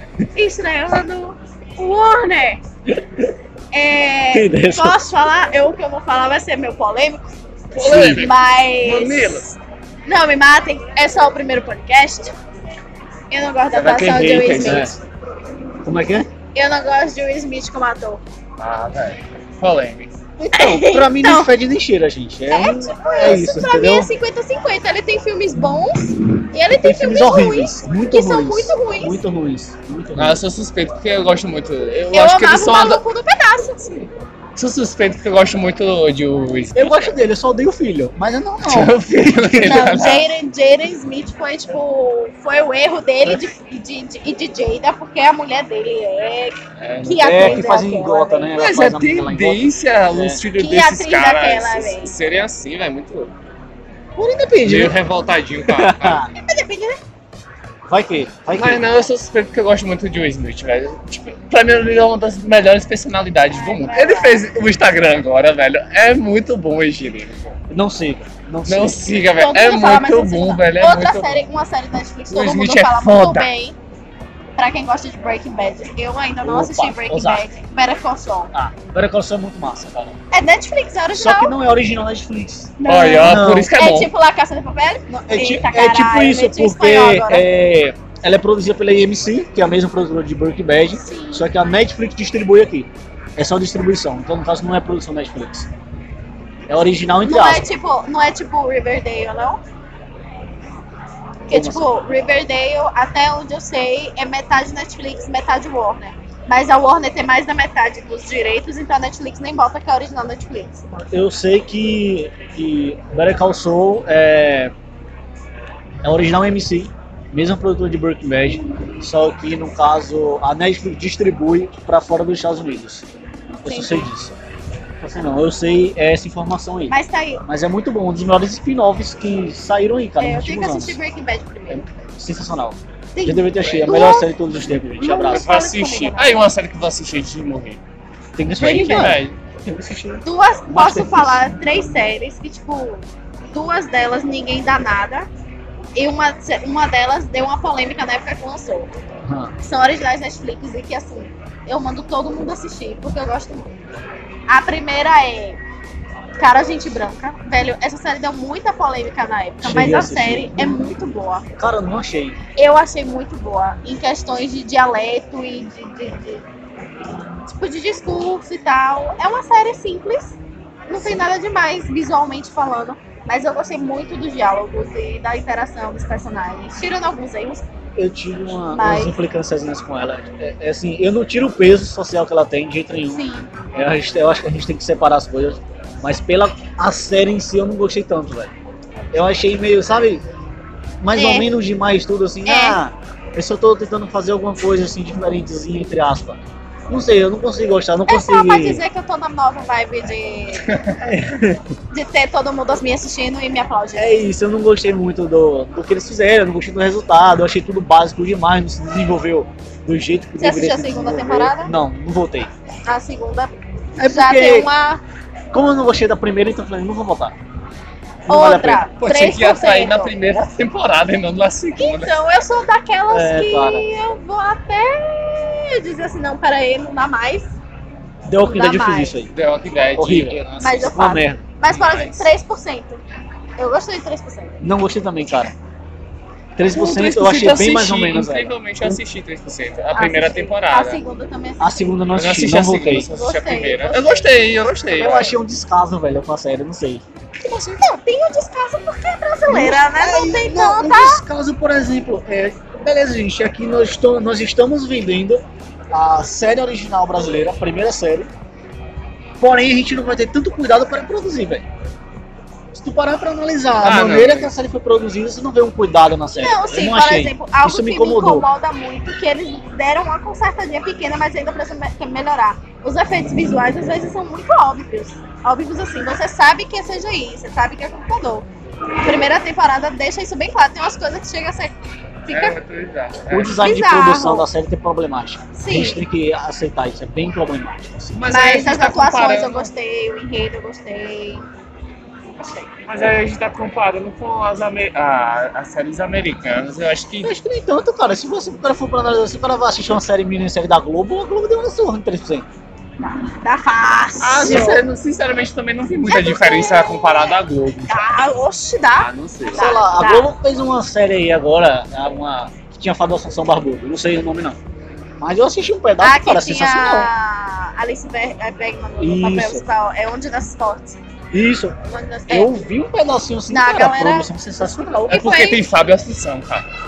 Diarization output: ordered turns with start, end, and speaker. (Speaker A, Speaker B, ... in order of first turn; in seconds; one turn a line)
Speaker A: 0.3-2.6
Speaker B: 2.9-3.3
Speaker A: 3.7-9.4
Speaker B: 4.3-5.0
Speaker C: 7.7-9.6
Speaker B: 7.8-8.3
Speaker A: 10.1-12.3
Speaker A: 13.3-15.0
Speaker C: 13.7-14.9
Speaker B: 14.1-15.0
Speaker B: 15.8-16.3
Speaker A: 16.5-18.2
Speaker C: 18.6-20.1
Speaker B: 20.4-24.1
Speaker A: 20.5-21.5
Speaker A: 22.5-29.2
Speaker B: 26.8-30.4
Speaker C: 30.1-33.0
Speaker A: 32.1-34.1
Speaker C: 34.6-37.1
Speaker B: 36.7-39.8
Speaker C: 38.6-40.3
Speaker A: 39.6-48.5
Speaker C: 46.8-47.7
Speaker B: 47.2-50.4
Speaker C: 48.6-53.3
Speaker A: 50.6-52.1
Speaker B: 54.1-55.0
Speaker C: 54.6-56.2
Speaker B: 55.6-56.3
Speaker A: 56.4-57.0
Speaker B: 57.9-58.8
Speaker C: 58.5-67.5
Speaker A: 63.5-64.5
Speaker B: 67.7-69.0
Speaker C: 68.7-71.5
Speaker A: 69.4-73.8
Speaker C: 72.3-73.5
Speaker A: 74.6-78.5
Speaker B: 76.4-77.5
Speaker B: 78.5-80.2
Speaker A: 80.3-81.5
Speaker B: 81.1-83.7
Speaker A: 82.8-87.5
Speaker C: 82.8-84.1
Speaker B: 85.3-95.7
Speaker A: 91.0-91.5
Speaker B: 96.7-97.7
Speaker A: 97.2-99.6
Speaker A: 101.5-110.8
Speaker B: 101.5-101.9
Speaker B: 110.9-114.7
Speaker B: 116.0-123.1
Speaker A: 123.6-124.1
Speaker B: 123.6-124.4
Speaker B: 125.0-131.0
Speaker A: 126.9-127.4
Speaker A: 130.2-131.8
Speaker B: 131.7-135.5
Speaker A: 133.1-134.3
Speaker C: 133.6-134.0
Speaker A: 135.0-136.5
Speaker C: 135.3-137.8
Speaker B: 138.4-141.4
Speaker A: 138.6-139.2
Speaker C: 138.6-139.4
Speaker A: 140.2-145.3
Speaker A: 146.0-148.9
Speaker B: 149.2-149.6
Speaker A: 149.6-153.7
Speaker A: 154.5-155.6
Speaker A: 156.4-161.5
Speaker B: 159.6-160.8
Speaker B: 161.6-162.4
Speaker A: 162.6-166.4
Speaker A: 167.5-170.4
Speaker A: 170.9-177.6
Speaker B: 178.0-188.5
Speaker A: 178.7-179.2
Speaker A: 183.1-183.5
Speaker B: 189.1-190.2
Speaker B: 191.0-198.8
Speaker A: 191.1-191.5
Speaker A: 192.4-192.8
Speaker A: 198.1-200.7
Speaker B: 201.0-201.7
Speaker A: 201.9-204.2
Speaker B: 203.9-212.5
Speaker A: 210.4-211.7
Speaker A: 212.8-215.0
Speaker B: 214.0-214.7
Speaker B: 215.5-217.4
Speaker B: 218.3-218.9
Speaker A: 218.3-220.1
Speaker C: 219.0-222.2
Speaker A: 221.8-227.5
Speaker B: 223.1-223.9
Speaker B: 228.3-229.3
Speaker A: 228.4-229.2
Speaker C: 229.3-231.0
Speaker B: 230.0-231.4
Speaker A: 230.6-233.0
Speaker C: 231.6-232.3
Speaker A: 233.6-234.6
Speaker B: 234.6-235.5
Speaker B: 236.6-239.0
Speaker C: 236.7-241.0
Speaker A: 239.9-242.0
Speaker B: 241.6-243.1
Speaker C: 242.1-245.3
Speaker A: 243.1-244.3
Speaker B: 244.9-247.0
Speaker A: 247.6-251.2
Speaker B: 249.5-258.3
Speaker B: 259.4-261.6
Speaker B: 262.7-268.5
Speaker C: 263.8-264.5
Speaker A: 266.3-278.5
Speaker A: 279.0-281.7
Speaker A: 282.2-282.6
Speaker C: 282.3-283.6
Speaker B: 283.3-288.1
Speaker A: 283.6-284.5
Speaker A: 285.6-286.0
Speaker C: 288.1-289.7
Speaker A: 288.3-291.4
Speaker A: 292.4-292.7
Speaker C: 292.9-297.3
Speaker B: 297.2-302.5
Speaker A: 303.0-304.8
Speaker C: 304.2-308.2
Speaker A: 306.1-310.3
Speaker C: 309.0-309.8
Speaker B: 309.5-314.6
Speaker B: 315.2-317.1
Speaker A: 316.0-321.0
Speaker B: 319.0-319.6
Speaker B: 321.3-321.8
Speaker A: 321.9-322.6
Speaker B: 322.3-325.1
Speaker A: 323.5-325.6
Speaker C: 325.1-326.6